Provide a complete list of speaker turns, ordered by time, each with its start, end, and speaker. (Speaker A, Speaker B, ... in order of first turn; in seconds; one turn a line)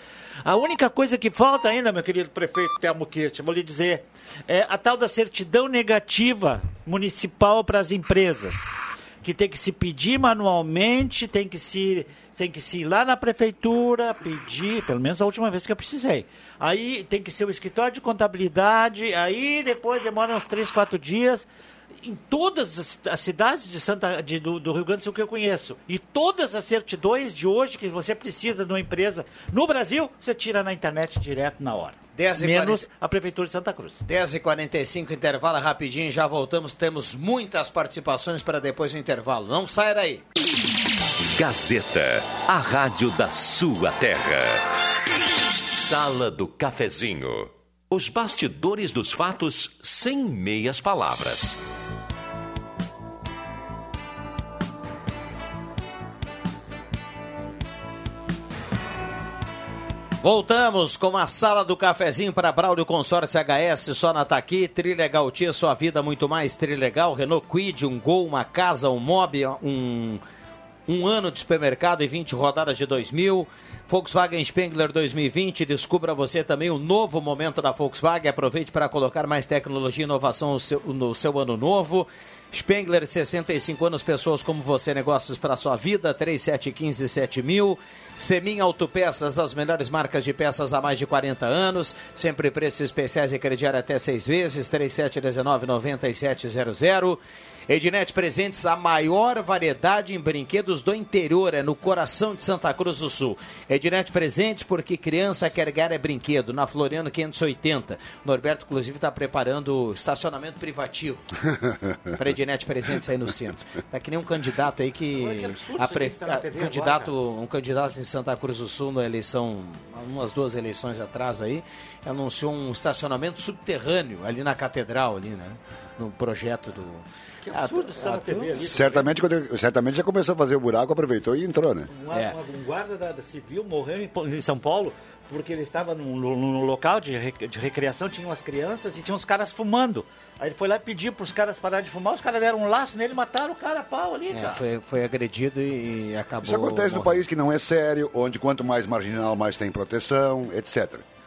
Speaker A: 0.4-21.5
Speaker A: 22.0-34.0
Speaker B: 32.1-32.9
Speaker B: 34.0-40.2
Speaker C: 41.3-44.6
Speaker C: 45.7-51.6
Speaker B: 60.2-70.2
Speaker B: 70.9-111.2
Speaker B: 112.2-128.5
Speaker A: 115.1-117.1
Speaker A: 127.4-129.2
Speaker D: 128.6-131.9
Speaker A: 131.9-144.6
Speaker B: 132.1-132.3
Speaker B: 144.3-147.2
Speaker D: 146.4-151.0